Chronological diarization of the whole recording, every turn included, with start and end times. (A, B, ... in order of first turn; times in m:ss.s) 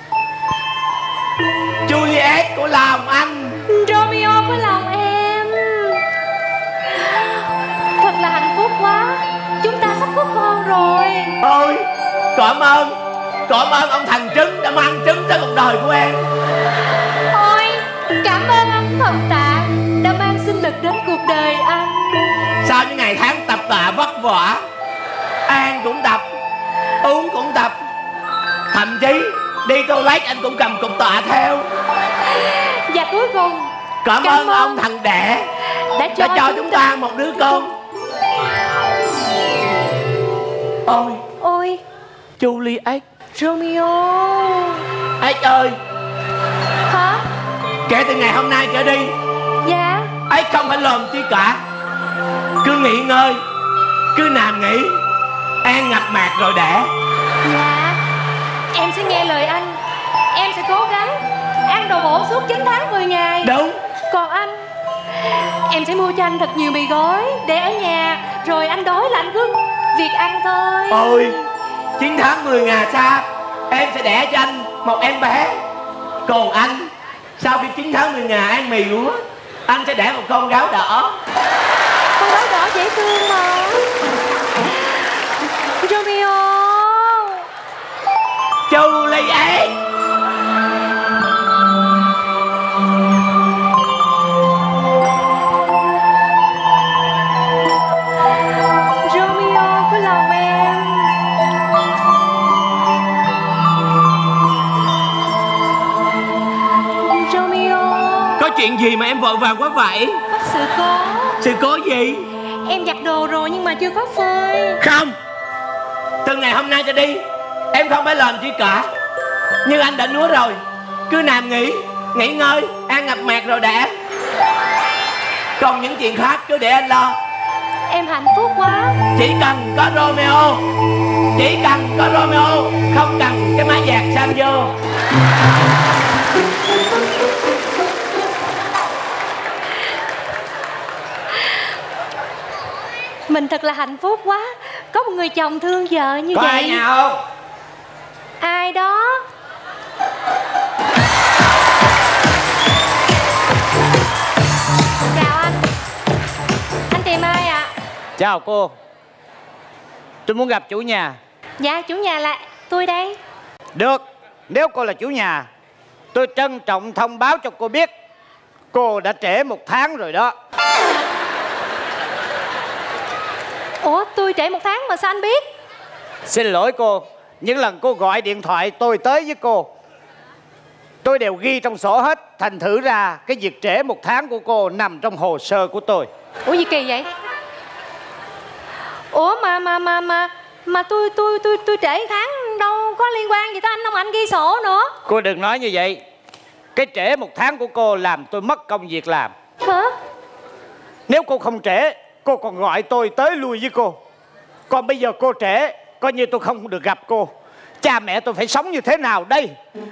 0:01.9-0:03.6 A
0:03.7-0:06.0 B
0:06.9-0:07.4 B
0:08.0-0:11.4 B
0:11.4-0:16.3 A
0:17.3-0:22.1 B
0:22.6-0:24.6 A
0:25.5-0:26.2 A
0:27.0-0:27.8 A
0:28.7-0:31.7 A
0:32.3-0:34.8 B
0:34.0-0:37.7 A
0:35.7-0:36.8 B
0:40.9-0:41.2 A
0:41.4-0:41.8 B
0:42.4-0:43.0 A
0:43.4-0:44.8 B
0:45.2-0:45.8 A
0:46.9-0:47.2 B
0:47.9-0:49.2 A
0:49.6-0:50.1 B
0:50.3-0:51.6 A
0:52.6-0:53.4 A
0:54.1-0:55.0 A
0:55.6-0:56.9 A
0:57.4-0:58.0 B
0:58.7-0:59.8 B
1:00.3-1:03.5 B
1:03.4-1:03.8 A
1:04.1-1:11.0 B
1:10.9-1:11.4 A
1:12.0-1:15.6 A
1:16.2-1:21.2 A
1:22.2-1:23.9 B
1:25.8-1:27.4 B
1:28.7-1:29.8 A
1:39.0-1:41.1 B
1:47.0-1:48.4 B
1:48.4-1:50.2 A
1:50.3-1:51.4 B
1:51.4-1:52.3 A
1:52.7-1:54.8 B
1:54.8-1:55.2 A
1:56.2-1:58.9 A
1:59.6-2:04.0 A
2:05.6-2:07.2 A
2:07.9-2:09.0 B
2:09.2-2:10.6 A
2:11.4-2:14.7 A
2:23.3-2:26.8 B
2:26.3-2:27.2 C
2:28.4-2:29.2 B
2:35.1-2:35.6 B
2:36.9-2:37.7 B
2:38.2-2:38.7 C
2:40.3-2:41.2 C
2:41.6-2:43.2 B
2:43.8-2:45.5 C
2:46.1-2:47.9 C
2:48.7-2:50.3 C
2:53.8-2:55.5 B
2:56.3-2:59.7 C
3:01.0-3:06.1 C
3:06.5-3:07.1 B
3:09.1-3:14.9 B
3:15.1-3:16.0 C
3:16.8-3:19.3 C
3:19.6-3:20.0 B
3:21.1-3:24.0 C
3:24.7-3:29.5 C